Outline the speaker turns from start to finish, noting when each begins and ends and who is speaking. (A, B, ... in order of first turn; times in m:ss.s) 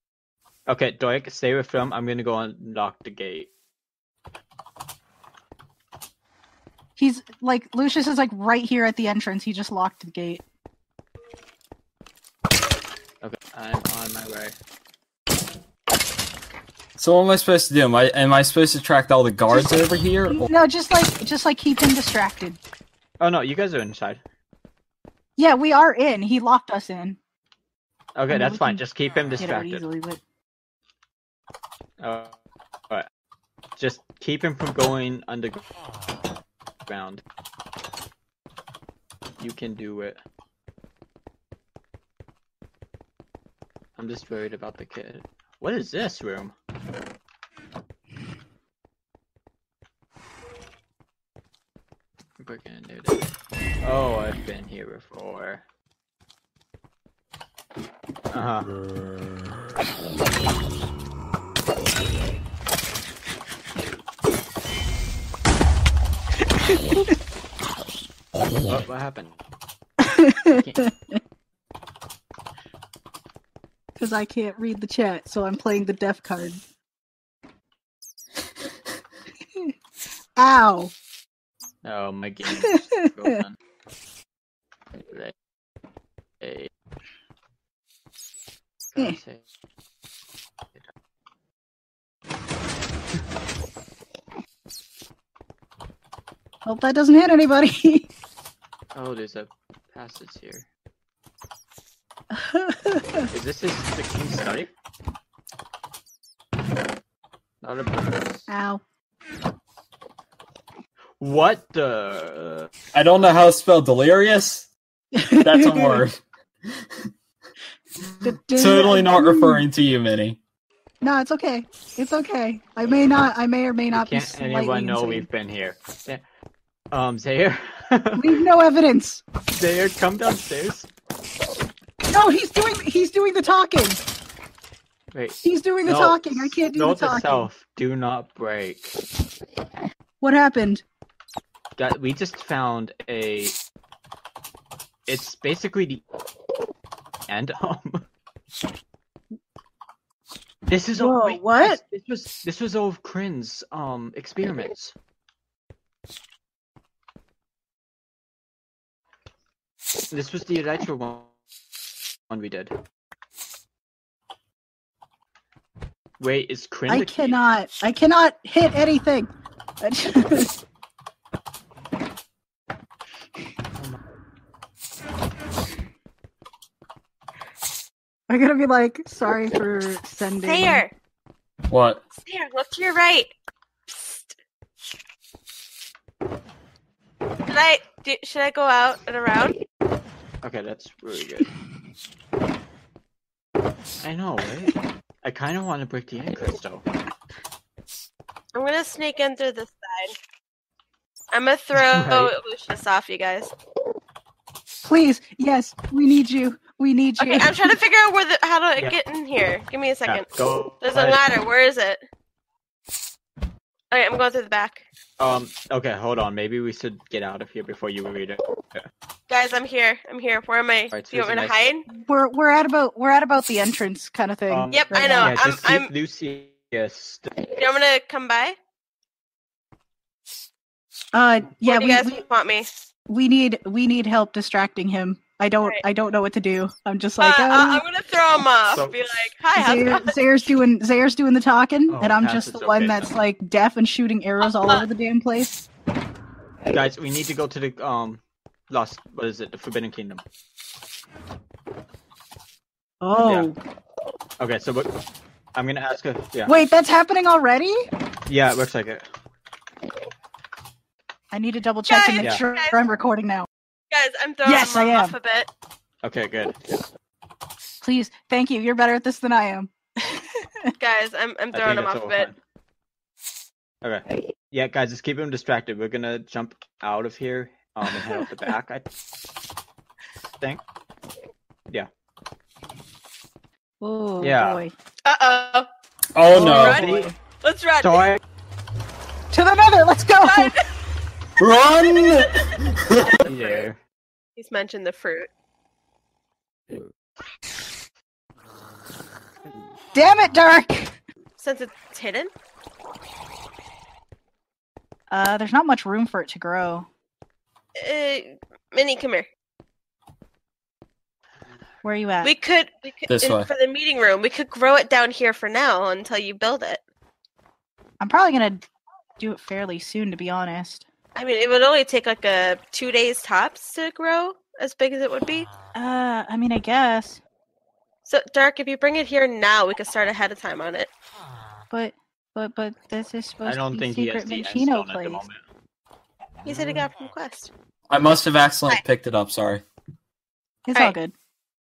0:00.7-0:03.5 A
0:07.0-0:10.4 B
0:13.2-0:14.6 A
0:17.0-0:20.5 C
0:19.5-0:22.6 B
0:23.2-0:24.2 A
0:25.4-0:27.2 B
0:28.2-0:29.8 A
0:28.3-0:28.8 B
0:29.4-0:30.2 B
0:32.0-0:32.4 A
0:33.8-0:35.6 A
0:36.9-0:37.2 A
0:39.4-0:40.2 A
0:44.0-0:46.5 A
0:52.4-0:53.3 A
0:53.8-0:55.6 A
0:58.3-0:58.7 A
1:08.7-1:09.4 A
1:10.0-1:11.2 B
1:10.6-1:10.8 A
1:14.0-1:16.6 B
1:20.4-1:20.9 B
1:21.8-1:23.6 A
1:24.9-1:25.3 A
1:26.4-1:26.7 A
1:28.9-1:29.4 A
1:36.6-1:38.1 B
1:39.0-1:40.7 A
1:42.3-1:43.3 B
1:43.3-1:44.7 A
1:47.6-1:48.5 A
1:48.5-1:48.8 B
1:51.2-1:52.7 A
1:52.9-1:54.7 C
1:55.1-1:56.0 B
1:55.4-1:56.2 C
1:58.3-1:59.6 B
1:58.3-2:00.4 C
2:01.0-2:05.3 B
2:03.9-2:06.2 A
2:06.9-2:08.4 A
2:08.2-2:09.2 B
2:09.5-2:10.9 A
2:12.1-2:14.0 B
2:15.1-2:19.0 A
2:15.4-2:17.5 B
2:20.2-2:20.8 B
2:21.8-2:23.6 A
2:25.1-2:26.0 A
2:27.3-2:28.0 A
2:30.7-2:35.0 A
2:31.0-2:31.8 B
2:40.1-2:41.3 A
2:42.3-2:42.8 A
2:46.2-2:47.4 A
2:46.9-2:50.5 B
2:58.3-3:00.8 B
3:00.4-3:00.9 D
3:01.7-3:02.0 C
3:02.3-3:03.3 D
3:07.5-3:09.6 D
3:10.4-3:11.5 A
3:14.0-3:16.9 A
3:18.6-3:20.2 D
3:21.3-3:23.5 D
3:21.8-3:22.4 A
3:24.8-3:27.8 B
3:27.2-3:30.3 D
3:30.1-3:31.2 A
3:30.8-3:32.0 D
3:33.9-3:34.8 D
3:35.2-3:38.9 A
3:39.3-3:41.8 D
3:40.9-3:41.6 A
3:42.0-3:45.4 B
3:44.5-3:47.3 A
3:44.7-3:45.9 D
3:47.5-3:48.6 D
3:51.1-3:52.2 B
3:51.6-3:52.7 D
3:53.1-3:57.8 B
3:57.2-4:00.2 D
3:58.7-3:59.0 A
3:59.6-4:05.7 B
4:01.9-4:03.1 A
4:04.4-4:04.9 D
4:06.7-4:10.2 A
4:13.0-4:13.6 B
4:13.2-4:13.5 A
4:14.4-4:14.9 A
4:15.6-4:16.6 A
4:16.5-4:17.9 B
4:18.3-4:19.0 A
4:21.3-4:23.5 B
4:21.9-4:22.7 D
4:22.2-4:22.4 A
4:23.9-4:25.5 D
4:24.4-4:25.2 B
4:26.0-4:26.6 A
4:27.8-4:30.7 B
4:30.8-4:32.3 D
4:31.5-4:32.4 A
4:33.8-4:38.9 A
4:43.8-4:44.7 B
4:44.2-4:44.6 A
4:45.0-4:45.7 D
4:46.2-4:46.9 C
4:46.3-4:48.1 D
4:46.4-4:46.8 B
4:46.4-4:47.1 A
4:47.8-4:48.2 A
4:49.3-4:50.6 B
4:50.2-4:50.6 D
4:51.4-4:53.2 C
4:53.2-4:53.8 A
4:54.4-4:55.3 D
4:59.9-5:01.0 B
5:01.4-5:02.3 D
5:05.1-5:06.9 B
5:07.8-5:09.3 D
5:11.8-5:12.3 B
5:12.2-5:16.8 D
5:13.1-5:13.5 C
5:18.0-5:18.6 B
5:19.2-5:20.9 B
5:21.2-5:25.5 D
5:25.8-5:27.2 B
5:28.1-5:30.9 D
5:31.7-5:35.2 B
5:33.4-5:35.4 A
5:36.5-5:37.5 D
5:37.9-5:39.6 C
5:40.7-5:41.1 B